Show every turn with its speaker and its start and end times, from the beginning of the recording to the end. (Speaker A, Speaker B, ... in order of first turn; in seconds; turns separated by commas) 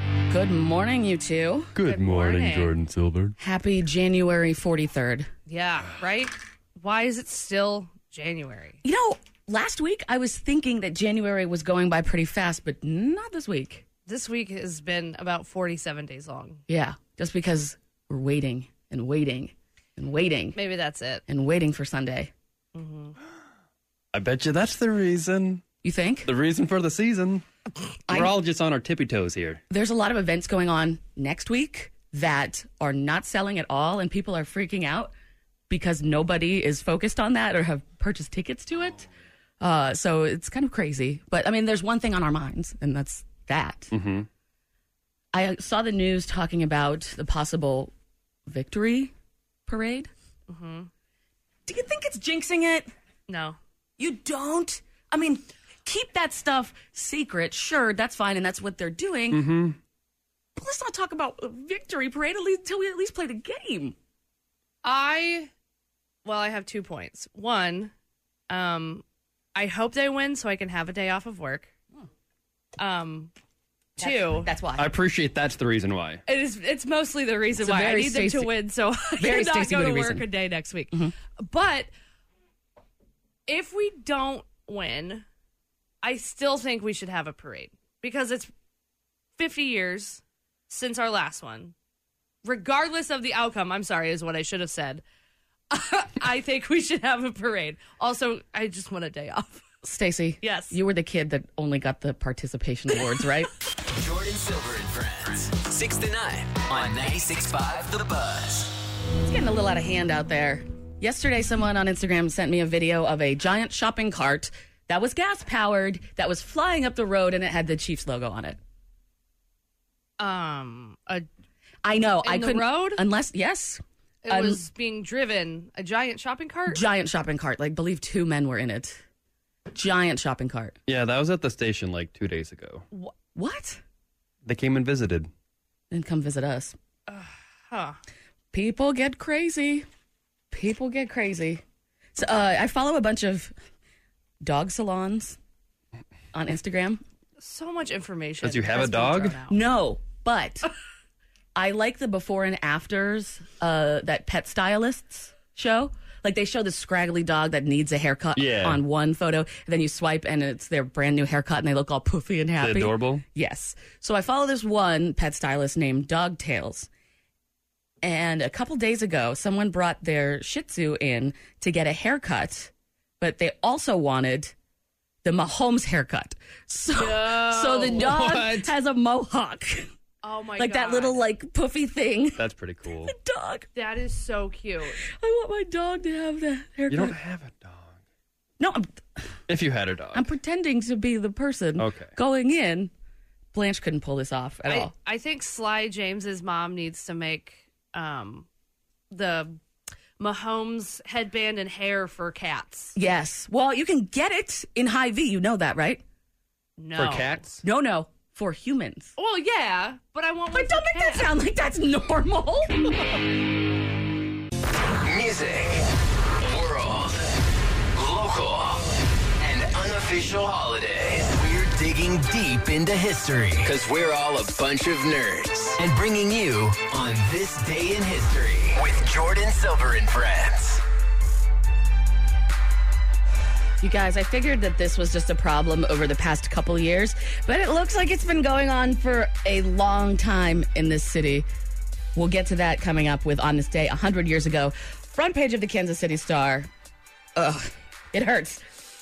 Speaker A: 0.3-1.8, Speaker B: 1.8-3.3, Speaker C: 1.8-2.7, Speaker A: 3.4-5.3, Speaker C: 5.5-8.8, Speaker A: 8.8-13.8, Speaker C: 14.1-16.6, Speaker A: 16.7-20.6, Speaker C: 20.6-21.2, Speaker A: 21.3-22.3, Speaker C: 22.7-23.1, Speaker B: 24.1-25.6, Speaker A: 25.8-26.3, Speaker B: 26.3-27.4, Speaker B: 28.1-29.6, Speaker A: 29.7-35.1, Speaker A: 35.7-39.1, Speaker A: 39.6-43.9, Speaker B: 43.9-44.3, Speaker A: 45.3-47.9, Speaker A: 48.5-49.1, Speaker A: 49.7-50.1, Speaker C: 50.5-50.9, Speaker A: 51.7-52.9, Speaker C: 53.3-53.6, Speaker A: 54.0-59.5, Speaker B: 59.3-59.8, Speaker A: 60.6-64.0, Speaker C: 64.8-65.5, Speaker C: 66.2-67.9, Speaker C: 68.5-71.7, Speaker C: 72.8-73.3, Speaker C: 74.0-74.5, Speaker A: 74.0-74.9, Speaker B: 74.8-76.2, Speaker C: 76.3-81.9, Speaker A: 77.6-78.5, Speaker A: 79.2-80.3, Speaker C: 83.5-85.3, Speaker C: 86.0-88.5, Speaker C: 89.4-91.7, Speaker C: 92.4-95.0, Speaker C: 95.7-99.6, Speaker A: 99.8-103.5, Speaker C: 100.4-100.8, Speaker D: 103.9-108.8, Speaker A: 109.2-118.6, Speaker C: 120.2-121.3, Speaker A: 121.8-124.6, Speaker C: 122.2-123.0, Speaker C: 124.2-126.8, Speaker A: 126.7-129.0, Speaker A: 129.7-130.8, Speaker B: 130.9-132.9, Speaker A: 133.3-133.8, Speaker B: 134.4-135.3, Speaker A: 135.9-136.8, Speaker C: 137.1-138.0, Speaker A: 138.5-139.9, Speaker A: 140.5-141.6, Speaker A: 142.2-143.5, Speaker A: 144.4-145.4, Speaker A: 146.3-147.0, Speaker C: 147.4-149.6, Speaker B: 148.4-149.4, Speaker A: 149.5-150.7, Speaker A: 151.6-166.9, Speaker B: 158.4-158.8, Speaker B: 162.6-163.2, Speaker A: 168.0-174.5, Speaker A: 175.2-179.9, Speaker C: 176.9-178.1, Speaker B: 177.9-178.7, Speaker C: 180.2-181.3, Speaker A: 180.6-182.4, Speaker B: 182.4-183.1, Speaker A: 183.1-183.7, Speaker C: 183.8-185.0, Speaker A: 185.1-187.2, Speaker B: 186.9-187.9, Speaker A: 188.6-189.0, Speaker B: 189.5-190.3, Speaker A: 190.1-192.9, Speaker B: 191.8-192.1, Speaker A: 193.5-194.9, Speaker C: 194.7-198.5, Speaker C: 199.1-199.6, Speaker C: 200.2-203.0, Speaker A: 203.0-206.0, Speaker C: 206.8-207.5, Speaker B: 207.0-207.6, Speaker A: 207.6-209.1, Speaker C: 209.2-211.3, Speaker A: 210.5-212.8, Speaker D: 215.0-215.8, Speaker D: 216.4-217.3, Speaker D: 217.9-230.8, Speaker A: 233.8-241.5, Speaker A: 242.2-246.7, Speaker A: 247.4-248.6